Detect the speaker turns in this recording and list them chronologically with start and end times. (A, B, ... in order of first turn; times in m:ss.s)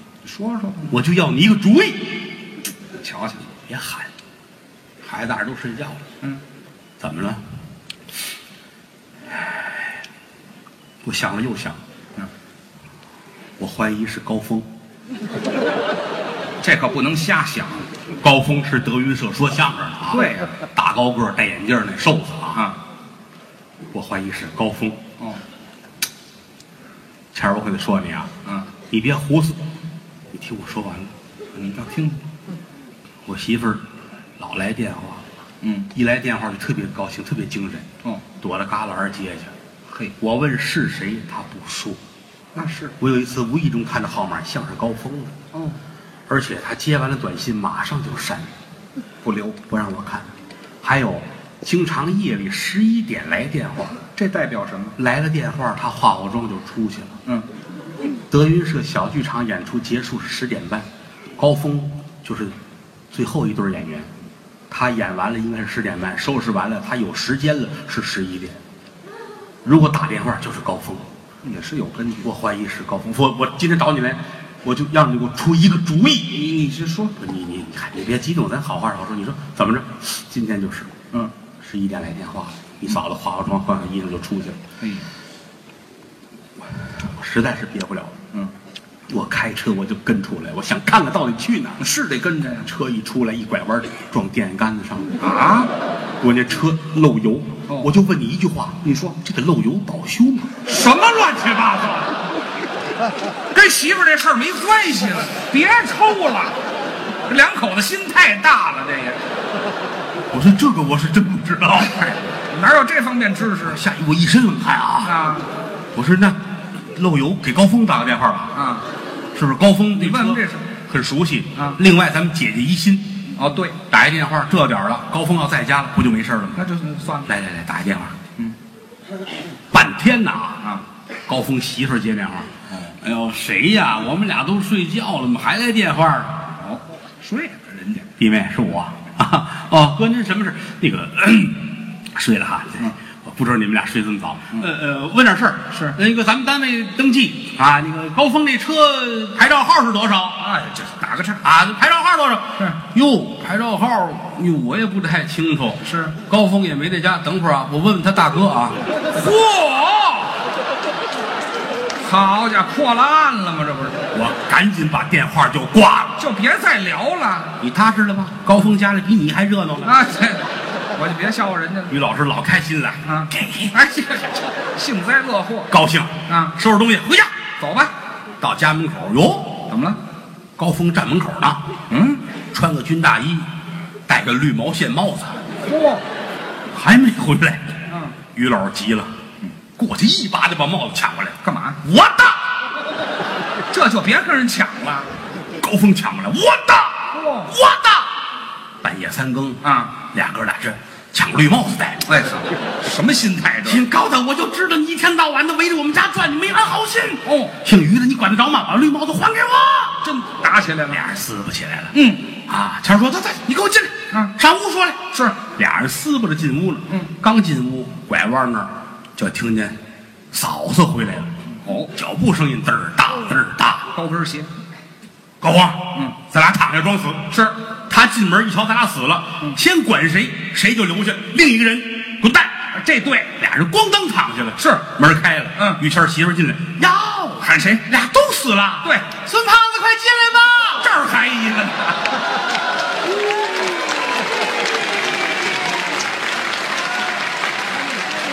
0:00.2-0:01.0 A
0:00.9-0:02.3 B
0:02.9-0:03.5 A
0:03.7-0:04.1 B
0:05.0-0:06.0 B
0:07.0-0:07.4 B
0:11.0-0:11.8 B
0:13.6-0:14.7 B
0:16.6-0:17.9 A
0:18.2-0:22.7 B
0:20.1-0:20.6 A
0:22.5-0:22.8 A
0:23.9-0:25.0 B
0:27.3-0:28.3 B
0:28.4-0:28.7 A
0:28.9-0:29.7 B
0:30.3-0:31.1 B
0:31.5-0:32.2 A
0:33.3-0:33.8 B
0:34.4-0:35.2 B
0:35.6-0:35.9 A
0:35.9-0:37.9 B
0:38.4-0:39.5 B
0:39.9-0:40.2 A
0:40.2-0:42.0 B
0:42.5-0:43.0 A
0:43.0-0:45.4 B
0:45.5-0:45.8 A
0:46.3-0:48.5 B
0:49.2-0:49.6 A
0:49.7-0:50.3 B
0:50.8-0:54.0 B
0:54.2-0:55.0 A
0:55.0-0:57.2 B
0:58.3-1:00.9 B
1:01.4-1:02.6 B
1:03.1-1:04.1 B
1:04.7-1:08.6 B
1:09.6-1:11.1 B
1:11.4-1:12.3 A
1:12.2-1:16.4 B
1:16.3-1:17.2 A
1:17.2-1:21.0 B
1:21.6-1:24.6 B
1:24.8-1:25.1 A
1:27.1-1:28.2 B
1:29.1-1:31.8 B
1:31.8-1:32.7 A
1:32.6-1:35.2 B
1:35.2-1:35.7 A
1:36.2-1:40.5 B
1:37.7-1:37.9 A
1:38.9-1:39.1 A
1:40.6-1:42.2 A
1:43.5-1:46.6 A
1:47.2-1:49.2 A
1:50.3-1:52.2 B
1:52.0-1:53.8 A
1:53.7-1:55.2 B
1:55.0-1:55.5 A
1:55.9-1:58.6 B
1:58.5-1:58.9 A
1:59.3-2:03.2 B
2:00.0-2:00.7 A
2:03.4-2:03.8 A
2:03.9-2:06.6 B
2:06.6-2:07.3 A
2:07.3-2:08.2 B
2:09.7-2:10.6 B
2:11.3-2:16.5 B
2:12.7-2:13.0 A
2:16.6-2:18.1 A
2:18.2-2:30.4 B
2:25.7-2:26.0 A
2:30.4-2:31.5 A
2:31.4-2:38.8 B
2:35.8-2:36.2 A
2:39.1-2:40.4 A
2:42.0-2:44.1 A
2:44.1-2:46.2 B
2:46.2-2:47.6 A
2:47.6-2:50.0 B
2:49.8-2:52.0 A
2:51.9-2:53.8 B
2:53.0-2:55.7 A
2:55.7-2:57.3 B
2:56.3-2:56.6 A
2:57.6-2:57.9 A
2:58.4-2:59.7 B
2:59.7-3:00.0 A
3:00.6-3:01.7 B
3:01.9-3:02.2 A
3:02.5-3:03.5 B
3:04.1-3:05.4 B
3:05.6-3:06.0 A
3:06.7-3:07.8 B
3:07.9-3:08.2 A
3:08.3-3:09.1 B
3:09.8-3:12.5 B
3:11.4-3:11.8 A
3:13.7-3:15.1 A
3:15.6-3:18.1 B
3:17.1-3:17.6 A
3:18.8-3:22.0 B
3:19.6-3:20.0 A
3:22.0-3:23.8 A
3:23.6-3:30.1 B
3:27.2-3:27.6 A
3:30.0-3:31.1 A
3:30.9-3:39.8 B
3:31.9-3:32.4 A
3:40.3-3:41.3 B
3:41.6-3:41.9 A
3:41.9-3:43.9 B
3:43.9-3:44.5 A
3:45.4-3:52.6 B
3:47.3-3:47.6 A
3:52.7-3:53.4 A
3:53.4-4:00.8 B
3:54.6-3:54.9 A
3:57.4-3:57.9 A
3:58.8-3:59.1 A
4:00.8-4:02.2 A